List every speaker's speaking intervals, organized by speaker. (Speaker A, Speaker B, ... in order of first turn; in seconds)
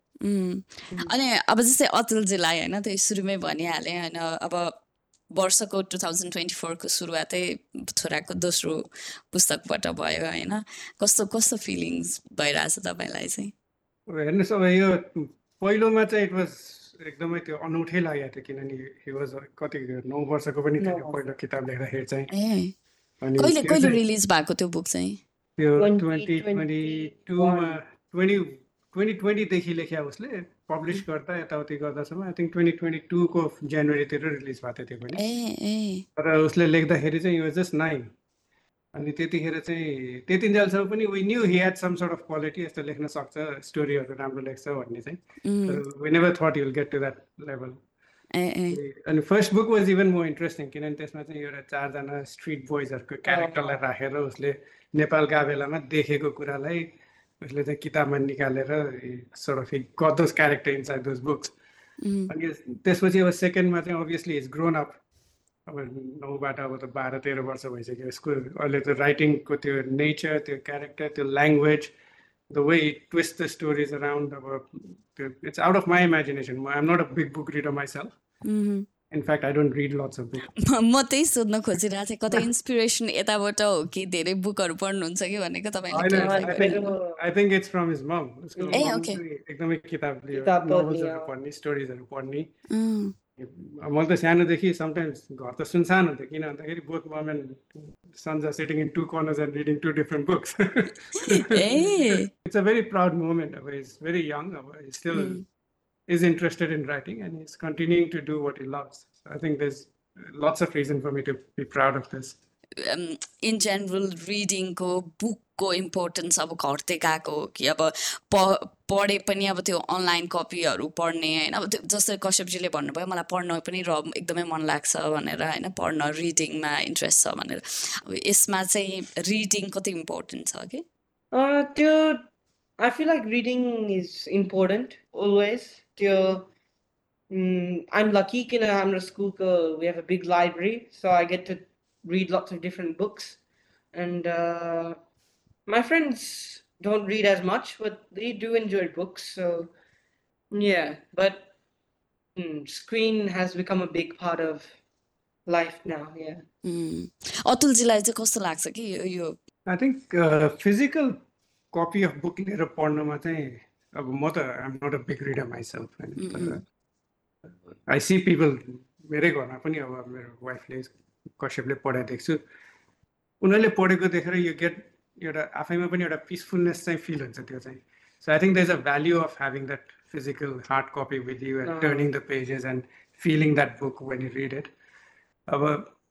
Speaker A: 0.2-4.8, 5.3-13.5, 22.3-22.7, 23.4-25.2, 35.1-36.0, 45.4-45.8, 48.3-48.8, 62.0-62.3, 78.5-78.8, 80.6-86.9, 88.8-89.2, 92.7-93.1, 101.4-102.3, 105.1-105.4, 112.9-130.8, 156.6-159.4, 166.2-166.6
Speaker B: 14.1-22.3, 23.2-24.0, 25.6-35.2, 36.2-38.1, 38.9-47.8, 48.7-61.5, 62.3-65.0, 65.7-71.9, 72.5-78.1, 79.1-80.5, 85.9-92.5, 93.4-105.4, 106.1-112.4, 159.7-161.2, 161.7-166.6, 167.9-172.4, 173.4-184.7, 185.5-185.9
Speaker C: 20.8-21.2, 25.8-27.8, 53.3-53.7, 86.2-87.2, 88.6-88.9, 90.3-91.3, 131.3-132.2, 132.8-136.5, 137.3-143.4, 143.9-144.9, 145.7-149.7, 150.5-151.5, 152.3-154.7, 155.5-156.4, 181.7-182.1